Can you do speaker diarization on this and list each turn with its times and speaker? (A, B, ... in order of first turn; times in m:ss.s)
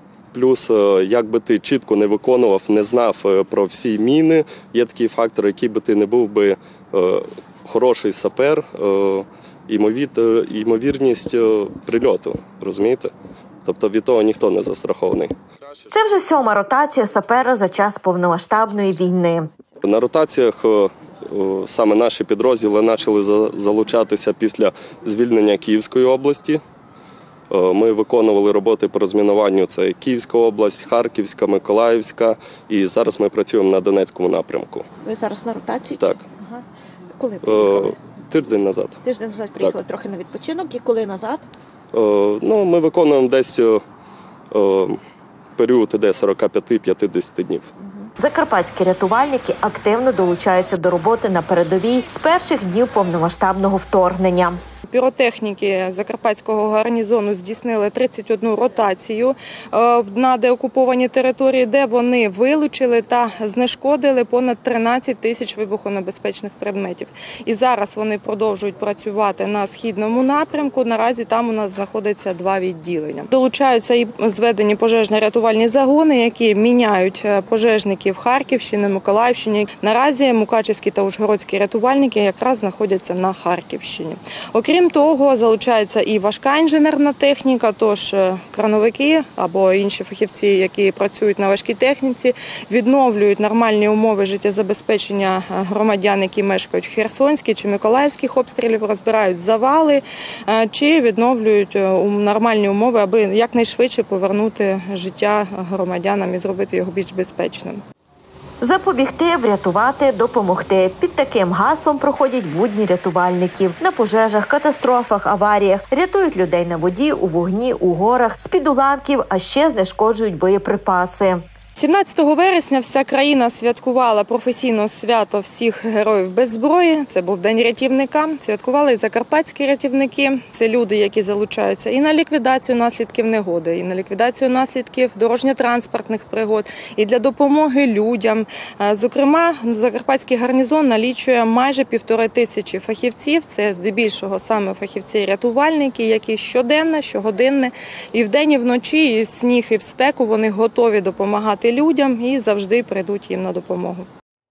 0:00.3-0:13.1 A
0:13.6-0:15.4 A
0:15.9-0:19.5 B
0:19.8-0:26.6 A
0:27.5-0:34.9 A
0:35.0-0:36.7 C
0:36.0-0:36.2 A
0:37.2-0:37.9 C
0:37.4-0:39.0 A
0:39.0-0:41.5 C
0:41.9-0:43.8 A
0:44.5-0:45.0 A
0:45.6-0:47.7 A
0:48.2-0:54.6 B
0:54.9-1:47.8 D
1:48.6-2:01.4 B
2:01.8-2:34.1 D